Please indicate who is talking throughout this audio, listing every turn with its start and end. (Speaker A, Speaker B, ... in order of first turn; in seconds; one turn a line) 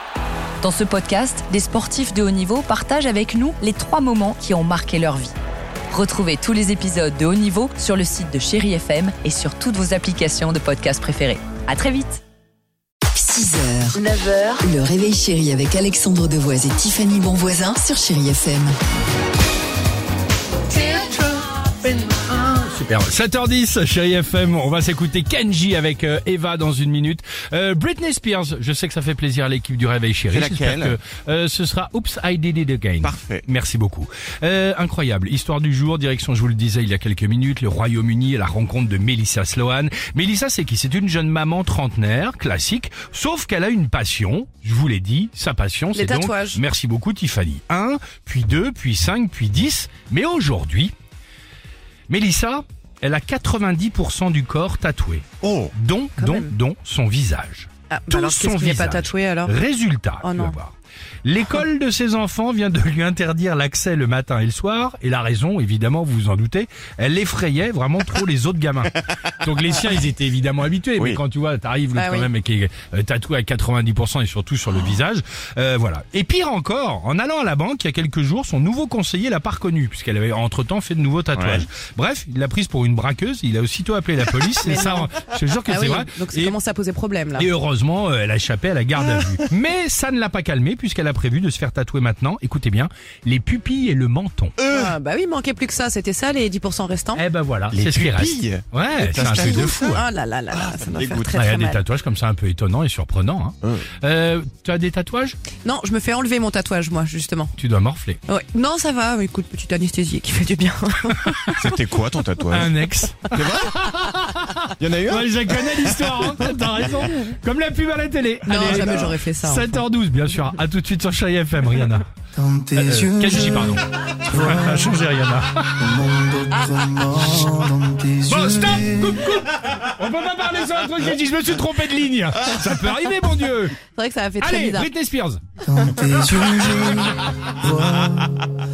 Speaker A: 0.6-5.3
Speaker A: 5.9-12.2
Speaker B: 13.1-14.0
Speaker A: 13.9-14.6
Speaker B: 14.6-18.8
Speaker C: 20.7-50.9
Speaker D: 30.3-30.9
Speaker D: 33.0-33.5
Speaker E: 45.9-46.6
Speaker C: 52.1-60.7
Speaker D: 55.4-55.7
Speaker E: 56.2-56.5
Speaker E: 57.9-59.6
Speaker E: 60.2-60.6
Speaker C: 61.2-86.5
Speaker E: 71.9-72.3
Speaker D: 81.3-81.7
Speaker E: 84.6-87.5
Speaker C: 87.3-94.6
Speaker D: 94.6-94.9
Speaker E: 94.7-97.2
Speaker C: 97.2-100.0
Speaker D: 97.7-101.5
Speaker E: 99.4-101.8
Speaker C: 101.3-105.4
Speaker E: 105.6-107.5
Speaker C: 107.6-108.2
Speaker E: 108.3-111.8
Speaker D: 111.5-114.0
Speaker C: 112.5-122.0
Speaker D: 114.8-117.1
Speaker E: 118.5-119.8
Speaker F: 122.3-125.0
Speaker C: 122.8-123.8
Speaker C: 124.4-125.9
Speaker F: 125.8-129.4
Speaker C: 128.3-133.8
Speaker E: 133.8-134.9
Speaker C: 134.4-135.4
Speaker F: 135.6-138.4